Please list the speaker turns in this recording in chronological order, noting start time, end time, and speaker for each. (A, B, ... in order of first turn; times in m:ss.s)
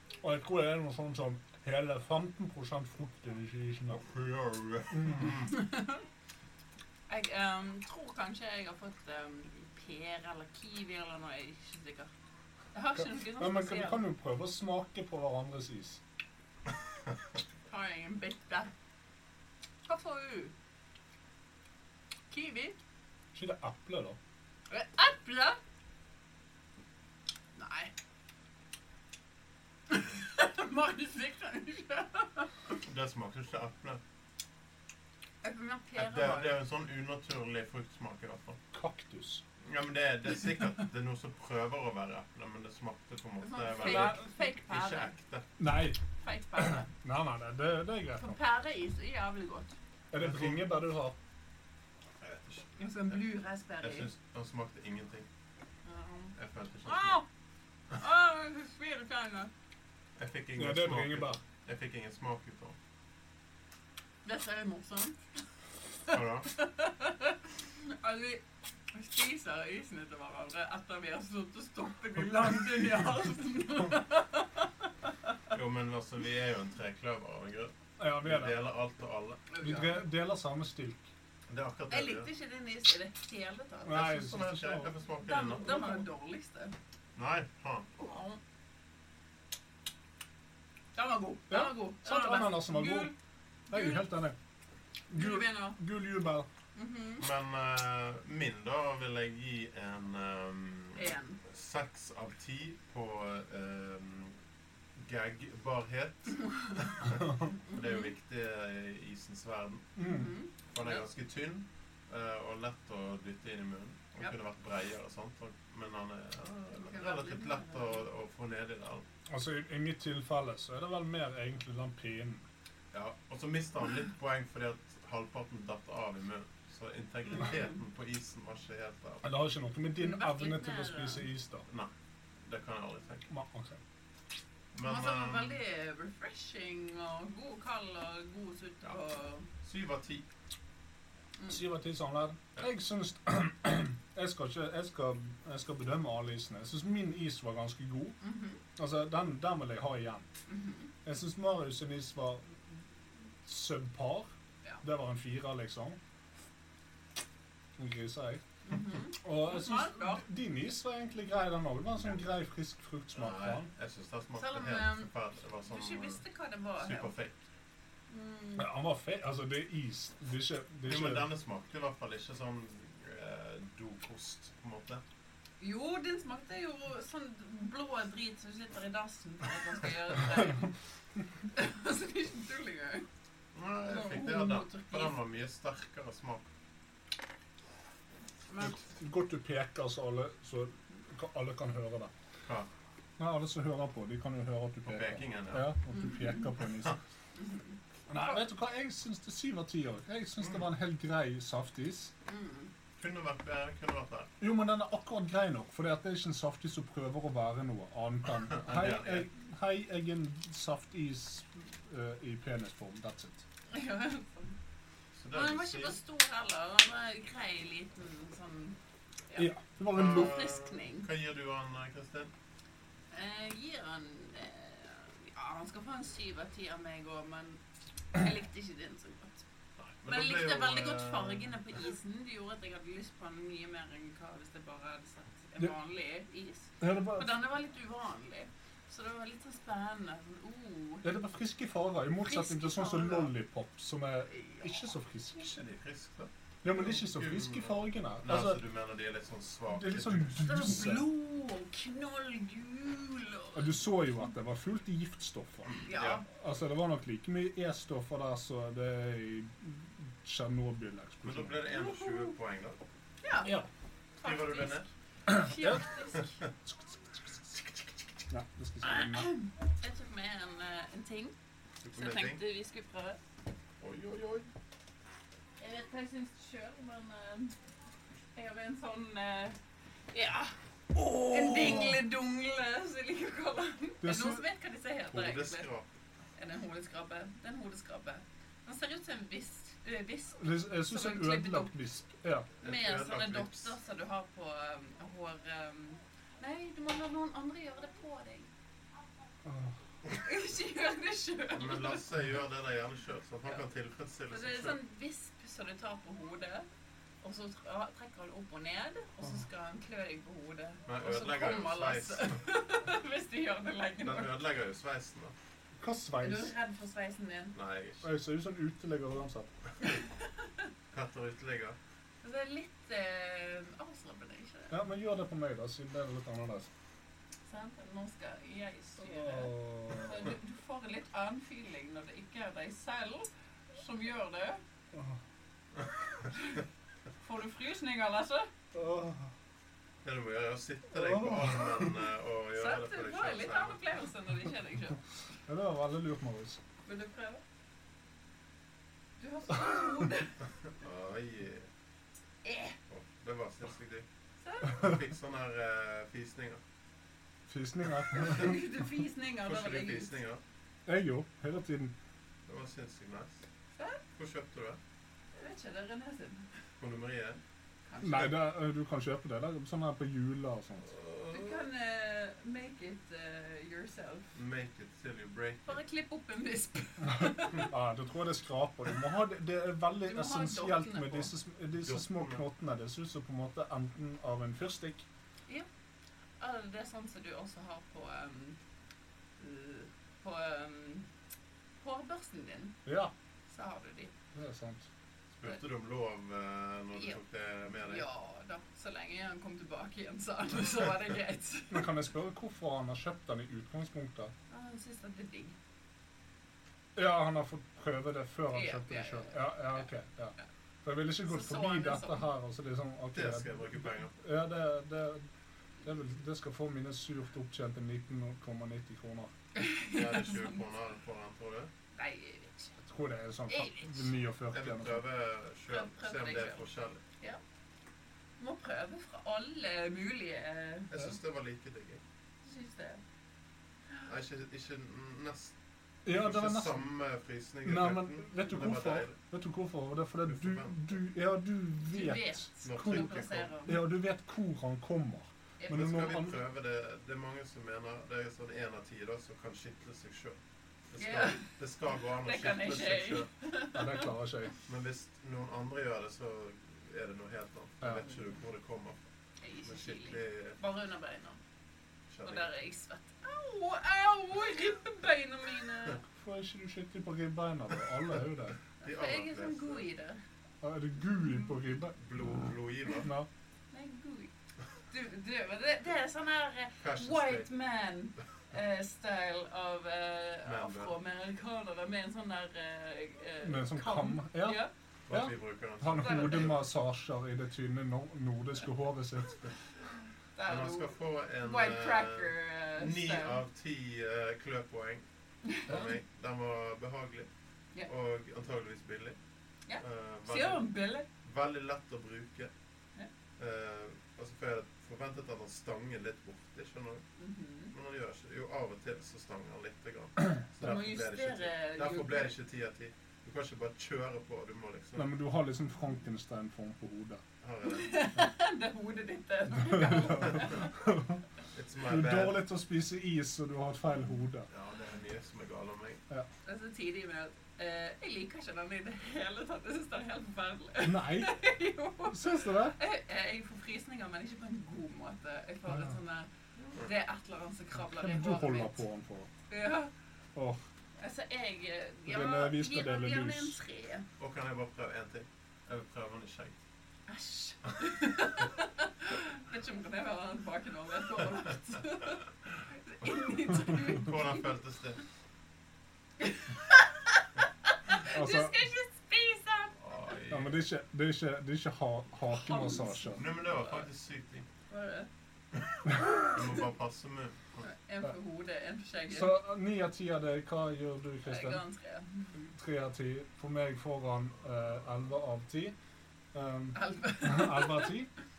0:00.2-0:04.1 A
0:03.9-0:05.5 B
0:04.9-0:05.3 A
0:05.5-0:06.0 C
0:07.1-0:12.1 C
0:12.7-0:14.1 C
0:12.9-0:16.0 A
0:17.7-0:18.7 C
0:19.8-0:20.5 C
0:22.3-0:22.8 C
0:23.3-0:24.2 A
0:24.7-0:25.6 C
0:27.5-0:27.9 C
0:29.9-0:32.5 C
0:32.8-0:34.0 B
0:35.4-0:36.6 C
0:35.9-0:38.6 B
0:38.7-0:39.4 A
0:39.6-0:45.4 B
0:43.4-0:45.1 C
0:43.8-0:44.2 A
0:45.6-0:46.0 A
0:46.2-0:46.9 C
0:46.6-0:48.4 A
0:48.2-0:49.7 C
0:50.1-0:51.2 A
0:50.2-0:50.6 B
0:52.2-0:53.2 B
0:52.8-0:54.1 C
0:53.8-0:55.3 B
0:55.8-0:57.2 C
0:56.4-0:57.2 B
0:57.9-0:59.5 C
1:00.2-1:02.8 B
1:00.6-1:01.4 A
1:04.2-1:05.2 C
1:06.1-1:07.3 C
1:06.1-1:06.5 B
1:08.0-1:14.7 C
1:15.5-1:19.4 B
1:18.0-1:18.6 A
1:19.5-1:20.0 C
1:19.6-1:21.1 A
1:21.5-1:22.3 B
1:21.9-1:24.1 C
1:23.8-1:24.9 A
1:23.9-1:26.0 B
1:25.2-1:26.7 C
1:27.2-1:27.9 B
1:28.0-1:28.4 C
1:30.9-1:33.1 C
1:31.5-1:33.1 A
1:33.7-1:34.4 A
1:33.7-1:34.1 C
1:35.1-1:36.5 A
1:35.1-1:35.8 C
1:36.7-1:37.2 C
1:37.2-1:44.3 B
1:41.0-1:41.4 C
1:45.0-1:49.9 B
1:46.4-1:46.9 C
1:47.7-1:48.1 C
1:50.0-1:50.3 A
1:50.0-1:51.0 C
1:50.7-1:59.0 B
1:56.7-1:58.1 C
1:59.3-2:02.4 A
2:02.9-2:09.4 B
2:09.2-2:11.7 A
2:10.0-2:11.3 C
2:12.4-2:13.3 B
2:13.3-2:13.8 A
2:14.7-2:15.6 B
2:14.8-2:19.5 C
2:19.6-2:20.2 B
2:21.5-2:28.2 A
2:28.2-2:28.6 C
2:28.8-2:30.2 A
2:30.5-2:30.9 C
2:31.0-2:32.8 A
2:33.4-2:34.3 A
2:34.8-2:36.0 A
2:37.8-2:38.4 A
2:38.6-2:40.2 C
2:39.1-2:43.7 A
2:43.1-2:46.2 B
2:44.4-2:45.1 C
2:45.6-2:47.1 C
2:46.8-2:47.4 B
2:48.1-2:48.7 C
2:48.6-2:51.3 A
2:50.8-2:55.0 B
2:55.6-3:00.7 C
3:01.5-3:03.0 C
3:03.5-3:06.4 B
3:03.8-3:05.2 C
3:08.5-3:08.8 C
3:08.6-3:12.1 A
3:13.2-3:17.0 A
3:14.8-3:15.7 B
3:15.9-3:16.5 C
3:17.4-3:18.4 C
3:18.1-3:22.1 A
3:20.4-3:20.6 B
3:22.3-3:22.7 C
3:23.0-3:24.3 B
3:24.4-3:33.4 A
3:28.5-3:29.3 B
3:33.7-3:34.6 C
3:35.2-3:36.0 B
3:35.3-3:38.8 C
3:39.3-3:41.1 C
3:39.4-3:40.4 A
3:39.9-3:42.3 B
3:43.1-3:47.6 C
3:48.1-3:49.4 C
3:49.8-3:51.6 B
3:50.0-4:01.0 C
3:56.8-3:57.3 A
4:01.0-4:05.6 A
4:02.2-4:03.3 C
4:04.3-4:04.7 C
4:05.4-4:10.8 B
4:06.6-4:08.6 A
4:09.7-4:11.1 A
4:10.4-4:13.7 C
4:13.5-4:21.7 A
4:15.8-4:16.2 C
4:15.9-4:16.2 B
4:21.2-4:22.8 B
4:21.7-4:22.3 C
4:23.2-4:23.6 C
4:23.4-4:23.7 A
4:24.2-4:26.3 C
4:24.2-4:24.9 B
4:25.3-4:25.8 A
4:26.6-4:27.6 A
4:28.3-4:29.3 A
4:28.8-4:31.3 C
4:31.8-4:32.4 B
4:31.9-4:33.2 C
4:33.8-4:34.5 B
4:35.6-4:37.5 C
4:38.3-4:39.6 C
4:40.1-4:40.5 C
4:40.9-4:42.0 A
4:41.3-4:45.7 C
4:44.0-4:44.4 A
4:45.1-4:45.9 B
4:46.4-4:51.7 C
4:50.4-4:52.5 A
4:52.6-4:53.8 B
4:52.6-4:58.5 C
4:59.4-4:59.8 A
5:00.2-5:02.0 C
5:01.5-5:04.8 B
5:04.3-5:06.6 C
5:07.2-5:14.4 C
5:10.9-5:12.3 B
5:14.0-5:15.3 B
5:15.8-5:16.5 A
5:16.2-5:17.5 C
5:17.5-5:18.0 B
5:18.0-5:19.5 A
5:20.9-5:21.8 B
5:22.2-5:24.8 C
5:24.7-5:26.7 A
5:27.4-5:34.6 C
5:29.0-5:30.3 A
5:34.9-5:35.2 A
5:36.3-5:36.6 C
5:37.2-5:38.5 C
5:38.7-5:39.3 A
5:40.0-5:43.8 B
5:40.9-5:41.9 A
5:42.6-5:45.0 C
5:45.5-5:46.6 A
5:46.8-5:47.4 C
5:49.2-5:50.4 C
5:50.8-5:51.7 B
5:52.4-5:52.8 C
5:52.9-5:54.0 B
5:54.4-5:54.8 C
5:54.7-5:56.6 B
5:57.5-5:58.6 A
5:58.1-6:00.1 C
5:59.4-6:00.4 B
6:00.8-6:02.0 A
6:02.5-6:03.4 B
6:03.7-6:04.0 C
6:04.2-6:04.8 B
6:05.4-6:06.5 C
6:06.8-6:07.4 B
6:07.9-6:08.5 C
6:08.0-6:10.9 A
6:10.8-6:11.6 B
6:11.3-6:14.3 C
6:14.3-6:15.8 B
6:15.6-6:17.7 C
6:17.0-6:25.0 A
6:20.1-6:21.3 C
6:21.8-6:22.4 B
6:26.4-6:28.6 C
6:29.4-6:31.1 C
6:31.8-6:32.8 C
6:32.8-6:33.1 A
6:33.5-6:34.1 C
6:34.3-6:34.8 A
6:35.4-6:38.0 B
6:36.9-6:37.2 C
6:37.8-6:41.8 C
6:41.7-6:44.3 A
6:44.5-6:45.6 C
6:47.0-6:55.3 A
6:48.5-6:49.9 C
6:51.2-6:52.3 C
6:53.1-6:54.1 B
6:55.8-6:59.3 A
6:59.5-7:00.6 C
6:59.9-7:01.7 B
7:01.9-7:02.7 C
7:02.8-7:05.0 A
7:03.5-7:04.1 C
7:04.5-7:07.0 B
7:05.7-7:06.6 C
7:08.4-7:10.9 C
7:10.9-7:12.0 B
7:12.4-7:13.0 C
7:14.0-7:15.5 B
7:16.0-7:16.9 A
7:16.1-7:19.2 B
7:17.6-7:26.4 A
7:20.2-7:21.0 B
7:21.8-7:23.8 C
7:22.6-7:23.5 B
7:25.6-7:26.0 C
7:25.7-7:30.4 B
7:30.9-7:33.3 B
7:31.0-7:31.4 C
7:32.2-7:34.1 C
7:33.7-7:34.5 A
7:34.7-7:39.0 B
7:37.8-7:38.1 A
7:39.4-7:41.4 C
7:39.6-7:40.6 B
7:42.1-7:42.5 B
7:42.2-7:46.0 C
7:46.1-7:48.6 A
7:48.8-7:49.9 B
7:48.8-7:50.2 C
7:50.6-7:52.0 A
7:52.0-7:53.1 B
7:53.0-7:53.3 A
7:53.7-7:54.3 C
7:54.9-8:04.7 C
7:56.8-7:57.5 B
8:00.4-8:01.0 B
8:03.4-8:09.4 A
8:05.1-8:06.6 B
8:06.0-8:06.5 C
8:10.4-8:13.4 C
8:10.4-8:15.0 B
8:15.6-8:17.3 B
8:17.8-8:19.2 B
8:19.7-8:21.1 C
8:19.8-8:20.7 B
8:21.2-8:22.5 B
8:23.4-8:27.0 B
8:27.2-8:27.7 C
8:27.7-8:35.1 B
8:30.6-8:32.3 C
8:35.0-8:37.2 A
8:37.4-8:38.0 B
8:37.7-8:40.7 C
8:39.5-8:41.2 A
8:41.5-8:42.4 B
8:41.8-8:44.5 A
8:44.5-8:46.0 B
8:46.4-8:56.3 C
8:50.8-8:51.4 A
8:52.1-8:52.8 A
8:55.7-8:56.0 A
8:56.6-8:56.9 B
8:56.8-8:58.8 C
8:57.8-8:59.3 A
8:59.5-8:59.9 C
9:00.3-9:00.6 A
9:01.0-9:04.0 C
9:02.0-9:03.6 A
9:04.2-9:06.6 B
9:07.1-9:14.5 C
9:13.6-9:15.0 B
9:16.2-9:17.2 C
9:17.9-9:19.8 C
9:18.1-9:18.6 A
9:19.8-9:20.6 B
9:20.3-9:23.2 A
9:22.3-9:23.9 C
9:23.2-9:24.5 B
9:24.7-9:25.1 C
9:25.9-9:26.2 A
9:26.3-9:27.7 B
9:27.6-9:29.4 C
9:29.1-9:31.6 A
9:31.2-9:32.3 C
9:32.3-9:35.7 A
9:36.3-9:38.1 A
9:36.7-9:37.9 C